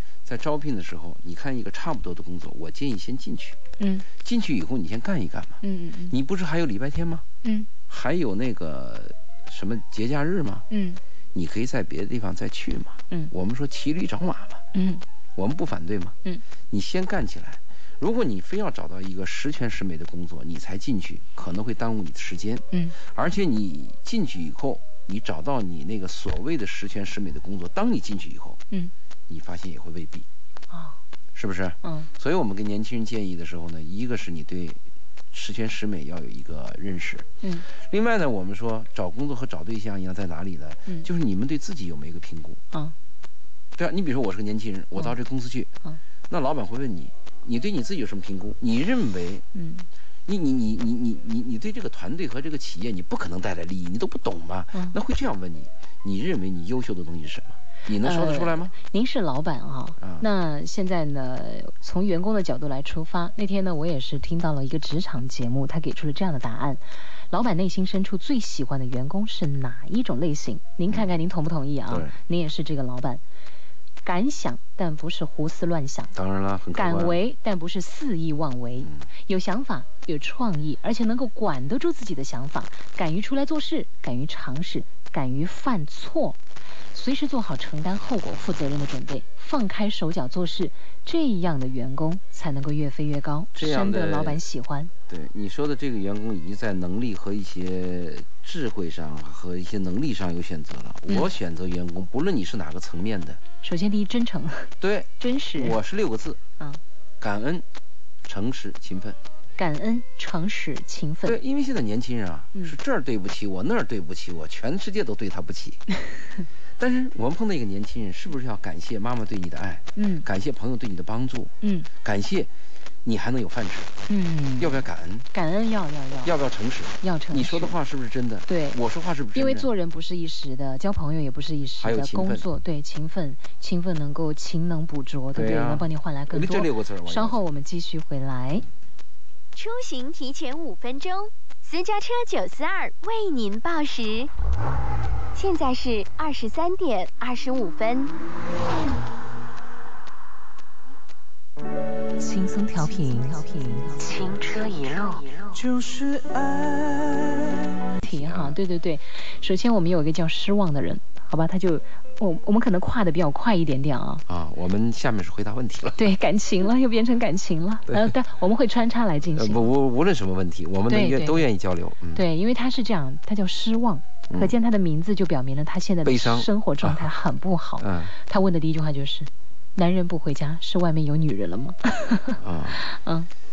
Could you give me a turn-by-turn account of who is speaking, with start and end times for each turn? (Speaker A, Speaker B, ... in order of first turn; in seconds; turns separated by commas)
Speaker A: 0.2-3.6, Speaker B: 3.8-4.0, Speaker A: 4.2-7.2, Speaker B: 5.6-6.1, Speaker B: 7.4-7.7, Speaker A: 7.9-10.7, Speaker B: 10.7-11.0, Speaker A: 11.3-14.6, Speaker B: 14.7-15.0, Speaker A: 15.3-16.1, Speaker A: 16.7-28.6, Speaker A: 29.3-30.2, Speaker B: 30.7-30.9, Speaker A: 31.3-34.8, Speaker B: 31.8-32.1, Speaker A: 35.3-42.6, Speaker A: 43.8-45.7, Speaker A: 46.3-49.4, Speaker B: 49.5-49.9, Speaker A: 50.2-58.7, Speaker B: 58.0-73.2, Speaker A: 60.0-60.2, Speaker A: 71.9-72.2, Speaker B: 74.0-76.1, Speaker A: 76.1-77.2, Speaker B: 76.7-86.4, Speaker B: 86.9-94.9, Speaker A: 93.5-94.4, Speaker A: 95.1-103.4, Speaker B: 103.6-105.8, Speaker A: 104.8-106.4, Speaker A: 107.2-107.6, Speaker A: 108.2-109.2, Speaker B: 109.6-111.4, Speaker A: 111.2-115.8, Speaker A: 116.8-122.5, Speaker B: 120.0-120.2, Speaker B: 121.6-121.9, Speaker A: 123.0-123.9, Speaker B: 124.1-126.3, Speaker A: 124.6-125.3, Speaker A: 126.2-129.7, Speaker B: 127.0-127.7, Speaker B: 128.5-128.8, Speaker B: 129.3-138.6, Speaker A: 131.8-132.4, Speaker A: 135.3-137.4, Speaker C: 139.5-144.3, Speaker C: 145.3-148.1, Speaker B: 152.2-155.3, Speaker A: 155.5-158.6, Speaker B: 158.0-164.2, Speaker A: 164.3-166.0, Speaker B: 166.0-169.6, Speaker A: 169.3-172.2, Speaker B: 170.9-171.5, Speaker B: 172.1-183.3, Speaker A: 176.0-177.0, Speaker A: 177.8-178.1, Speaker A: 182.4-182.8